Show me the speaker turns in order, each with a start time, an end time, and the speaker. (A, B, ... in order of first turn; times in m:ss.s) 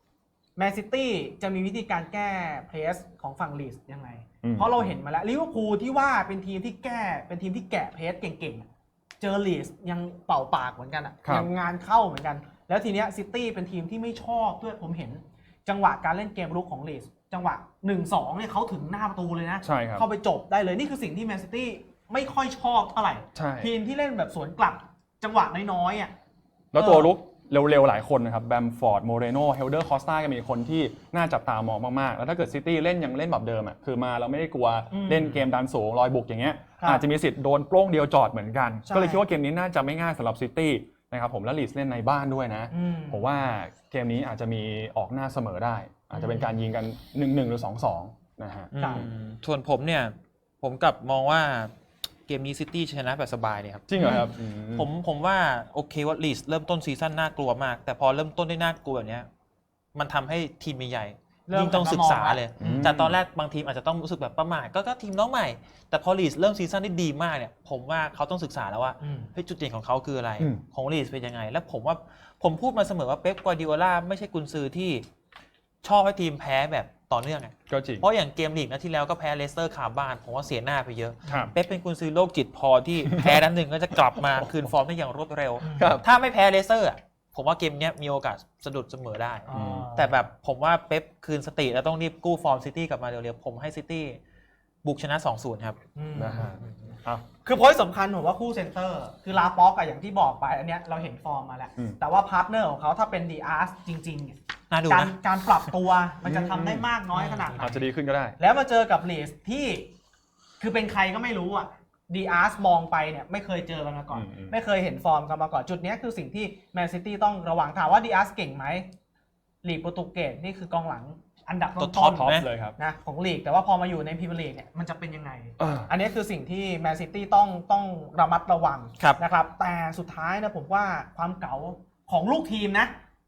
0:00.6-0:08.7 A
0:04.4-0:04.9 B
0:09.2-0:26.1 A
0:19.6-0:20.0 B
0:23.3-0:23.7 B
0:26.7-0:49.1 B
0:26.7-0:27.1 A
0:34.9-0:35.4 A
0:38.9-0:39.2 A
0:42.7-0:43.3 A
0:46.1-0:46.5 A
0:48.7-0:51.7 C
0:48.8-0:49.0 A
0:52.3-0:59.3 C
0:53.9-0:54.9 B
0:54.0-0:54.2 A
0:59.9-1:15.0 C
1:01.5-1:02.9 A
1:02.6-1:03.2 B
1:09.0-1:09.3 A
1:15.8-1:34.2 C
1:17.7-1:18.0 B
1:21.2-1:21.5 B
1:25.6-1:26.0 A
1:25.8-1:26.0 B
1:29.5-1:30.1 A
1:29.5-1:29.9 B
1:34.8-1:35.8 C
1:36.0-1:36.6 A
1:36.1-1:37.2 B
1:37.4-1:44.4 A
1:44.7-1:45.1 C
1:44.9-1:49.9 A
1:46.2-1:46.9 B
1:47.1-1:47.7 C
1:47.5-1:48.4 B
1:50.6-1:58.9 A
1:54.1-1:54.6 B
1:59.6-2:12.9 A
2:01.8-2:02.5 C
2:02.0-2:02.8 B
2:05.6-2:05.9 B